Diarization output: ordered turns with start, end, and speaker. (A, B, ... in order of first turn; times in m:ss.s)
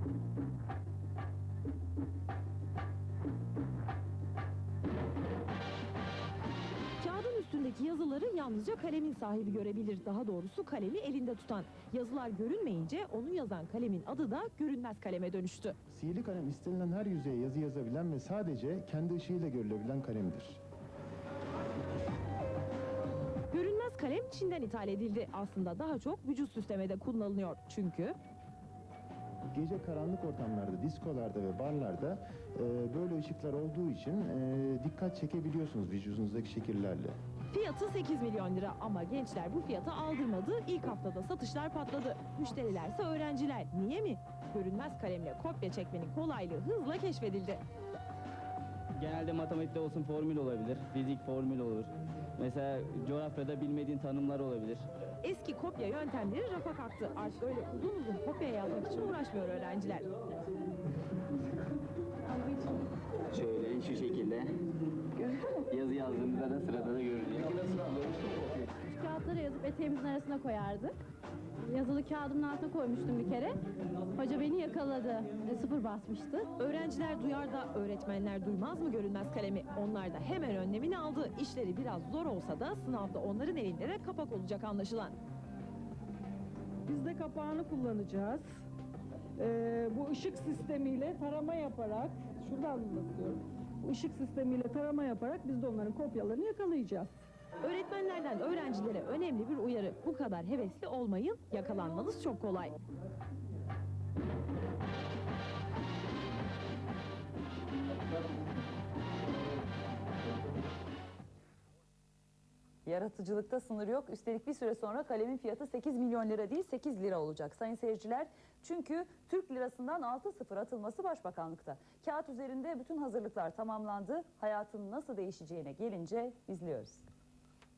0:07.0-0:15.7 A
0:15.9-0:20.6 B
0:23.5-0:28.2 A
0:29.5-0:37.1 B
0:37.5-0:47.6 A
0:48.9-0:54.8 C
0:55.2-1:00.1 A
1:03.3-1:04.5 C
1:05.2-1:08.6 C
1:08.8-1:11.0 D
1:11.7-1:13.6 D
1:14.2-1:16.5 D
1:16.6-1:25.2 A
1:26.8-1:28.4 E
1:29.4-1:37.1 E
1:37.6-1:42.7 A
1:52.8-2:07.0 F